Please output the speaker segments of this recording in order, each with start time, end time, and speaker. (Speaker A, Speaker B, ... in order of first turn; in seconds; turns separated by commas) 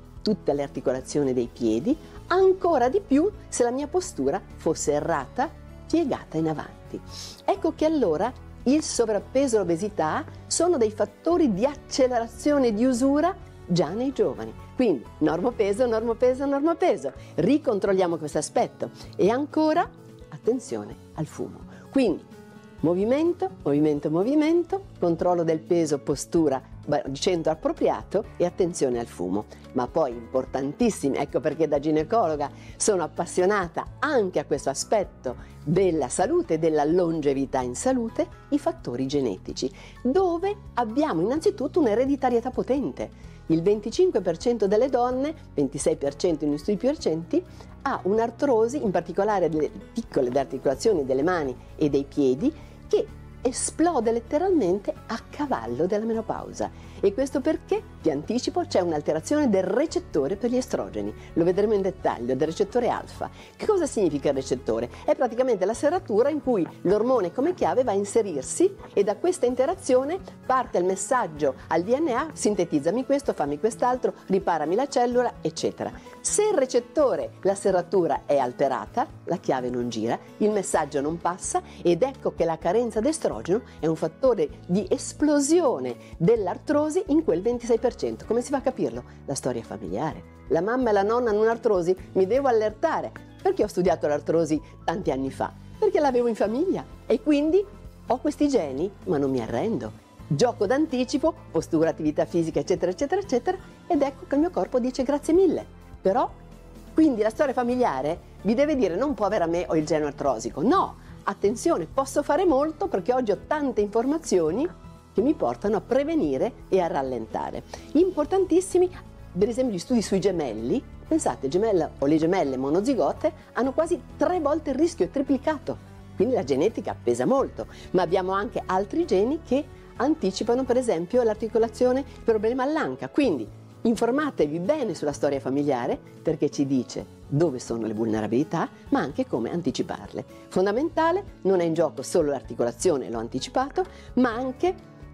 Speaker A: 0.2-22.3, Speaker A: 22.8-106.3, Speaker A: 106.9-144.8